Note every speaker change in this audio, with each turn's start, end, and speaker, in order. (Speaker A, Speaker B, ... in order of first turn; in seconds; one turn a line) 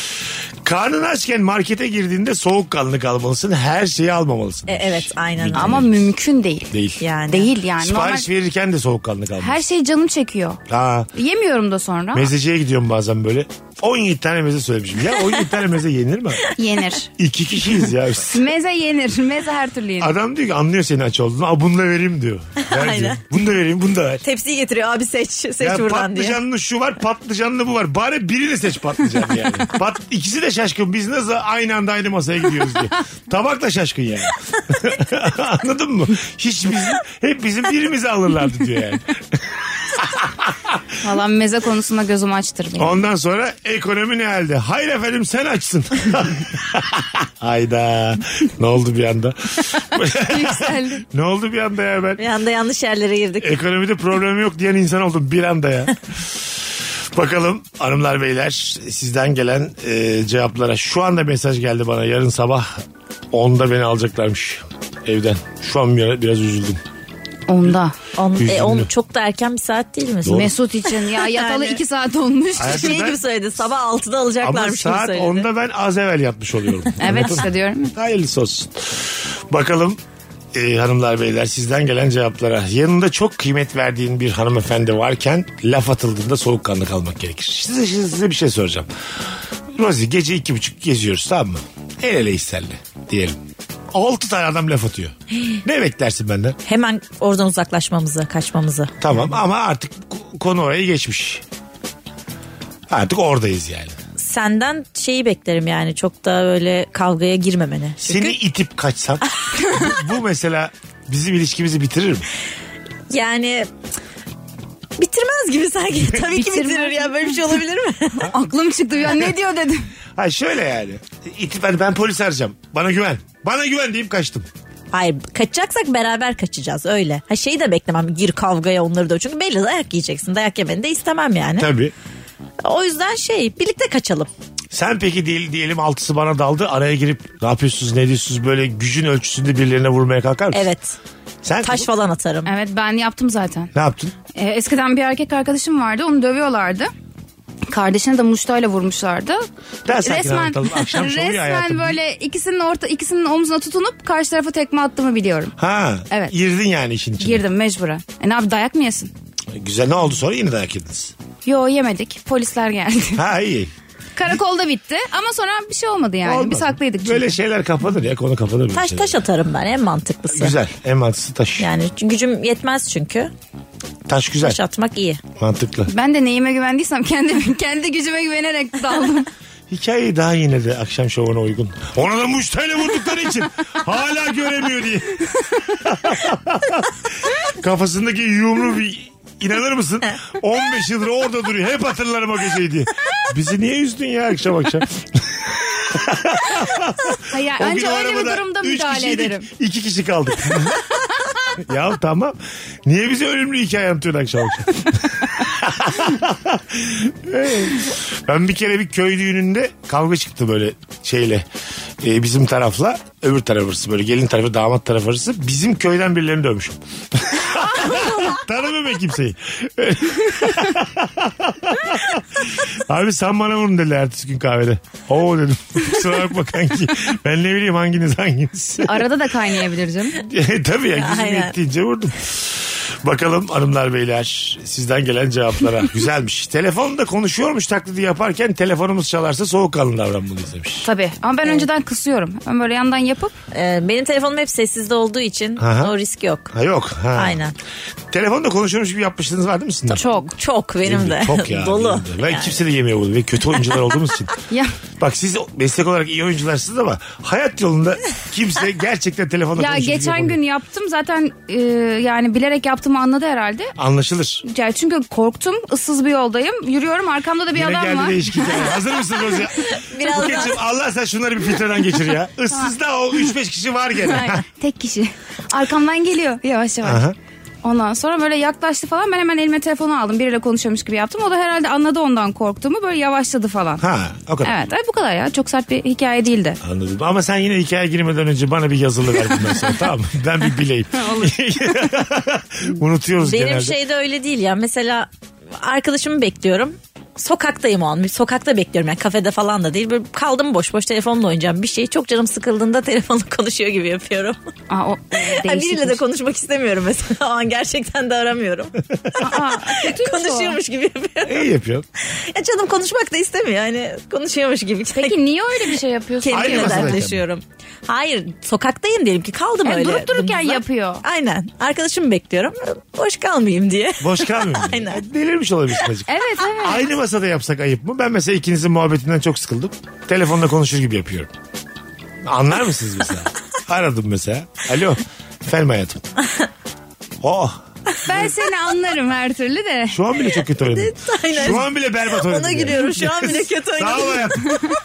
Speaker A: 0.6-6.1
Speaker B: 4.7-5.8
Speaker C: 5.5-6.7
Speaker A: 6.7-7.0
Speaker B: 7.0-7.5
Speaker C: 7.3-8.2
Speaker A: 7.8-9.6
Speaker C: 9.4-10.6
Speaker A: 10.7-11.1
Speaker C: 11.1-12.3
Speaker A: 12.1-16.4
Speaker C: 16.5-17.1
Speaker A: 17.2-18.4
Speaker C: 18.2-20.1
Speaker A: 20.0-24.2
Speaker B: 22.6-23.3
Speaker B: 24.2-26.4
Speaker A: 25.6-40.8
Speaker C: 41.0-43.0
Speaker A: 42.8-52.2
Speaker C: 50.2-51.0
Speaker B: 52.2-53.6
Speaker A: 53.4-56.2
Speaker A: 57.1-66.8
Speaker C: 67.5-67.9
Speaker B: 68.1-71.8
Speaker A: 68.4-68.9
Speaker A: 70.2-70.5
Speaker C: 70.3-73.1
Speaker A: 72.6-73.2
Speaker B: 72.6-75.5
Speaker A: 74.4-80.0
Speaker C: 77.0-77.9
Speaker A: 80.5-88.9
Speaker A: 89.7-93.4
Speaker A: 93.9-96.6
Speaker B: 96.7-98.9
Speaker A: 99.0-101.4
Speaker A: 102.9-103.9
Speaker B: 104.2-108.3
Speaker A: 108.0-112.2
Speaker B: 113.1-113.7
Speaker B: 115.0-118.3
Speaker C: 116.1-117.3
Speaker C: 118.3-119.8
Speaker A: 120.2-124.5
Speaker B: 124.9-131.7
Speaker A: 131.6-131.9
Speaker B: 132.6-134.3
Speaker A: 134.7-140.7
Speaker B: 140.5-140.9
Speaker A: 141.4-141.9
Speaker B: 141.6-142.5
Speaker C: 142.4-143.7
Speaker A: 143.7-144.1
Speaker C: 144.3-146.9
Speaker C: 147.7-155.5
Speaker A: 149.8-152.0
Speaker A: 155.6-157.4
Speaker C: 156.1-156.3
Speaker C: 157.2-159.1
Speaker A: 159.5-161.1
Speaker C: 161.4-163.2
Speaker A: 163.1-163.7
Speaker C: 164.2-167.4
Speaker A: 166.2-169.1
Speaker B: 168.7-170.6
Speaker A: 170.3-171.7
Speaker B: 171.6-173.3
Speaker A: 174.1-174.6
Speaker B: 174.4-175.2
Speaker A: 175.3-175.9
Speaker C: 175.9-179.3
Speaker A: 179.7-185.2
Speaker A: 185.8-200.9
Speaker C: 197.2-199.5
Speaker A: 201.6-211.4
Speaker A: 212.0-229.1
Speaker C: 228.8-230.2
Speaker A: 230.2-240.9
Speaker B: 230.9-231.5
Speaker C: 240.8-243.3
Speaker B: 243.5-246.5
Speaker A: 245.6-245.9
Speaker A: 246.5-247.4
Speaker B: 247.1-247.5
Speaker A: 248.1-250.0
Speaker B: 249.9-252.6
Speaker C: 249.9-250.3
Speaker A: 250.8-254.4
Speaker C: 254.5-254.8
Speaker A: 255.0-260.4
Speaker C: 259.6-263.7
Speaker A: 263.8-264.4
Speaker C: 264.4-268.7
Speaker A: 267.5-274.4
Speaker B: 269.5-270.6
Speaker C: 274.1-277.0
Speaker A: 276.8-277.1
Speaker C: 277.6-283.8
Speaker A: 283.8-284.6
Speaker C: 284.4-286.6
Speaker A: 286.6-293.8
Speaker C: 290.9-291.9
Speaker B: 293.2-304.4
Speaker C: 304.7-306.0
Speaker B: 305.1-311.5
Speaker C: 309.2-310.6
Speaker A: 311.2-311.9
Speaker B: 312.0-315.1
Speaker C: 314.9-317.0
Speaker B: 316.2-325.0
Speaker A: 316.3-317.2
Speaker C: 319.6-321.0
Speaker A: 324.0-331.3
Speaker C: 326.1-326.9
Speaker A: 332.2-336.0
Speaker A: 337.2-338.3
Speaker C: 338.0-340.0
Speaker A: 339.9-344.6
Speaker B: 340.6-344.6